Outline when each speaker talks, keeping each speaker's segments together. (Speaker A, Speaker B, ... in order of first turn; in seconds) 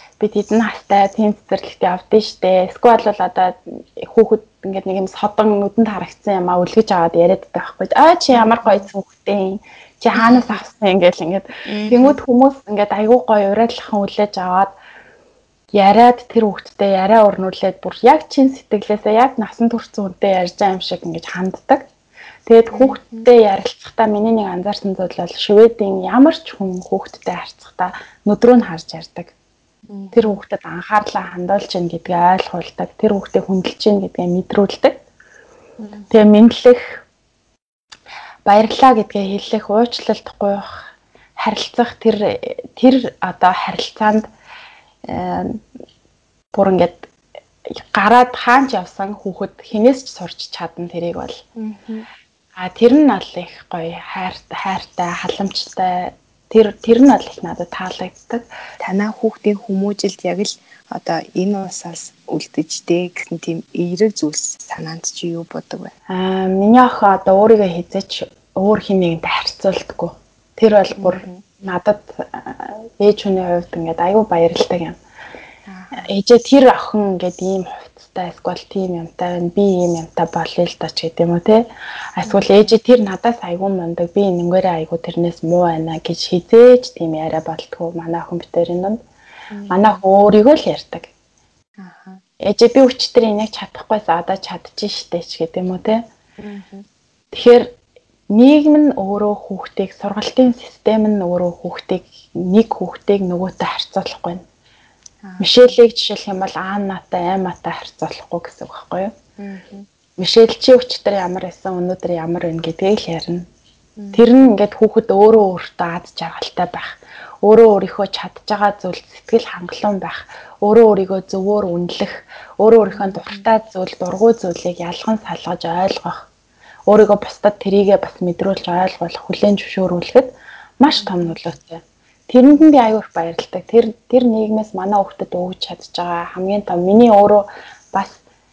Speaker A: 0.2-14.7, 15.7-21.9, 22.5-29.3, 30.1-35.0, 36.1-37.0, 38.5-40.7, 41.4-44.3, 45.1-45.6, 46.5-47.1, 47.8-51.4, 52.6-58.5, 66.1-75.0, 75.9-81.6, 82.2-89.0, 89.7-91.1, 92.4-96.0, 97.3-97.7, 98.3-104.4, 105.4-109.1, 110.2-113.5, 114.1-116.9, 117.4-126.2, 126.9-138.2
Speaker B: 29.9-30.2, 35.8-36.1, 51.6-52.1, 58.8-65.9, 71.0-71.4, 75.7-76.0, 82.2-82.7, 89.5-89.9, 91.8-92.2, 96.4-96.8, 105.2-105.7, 109.4-109.9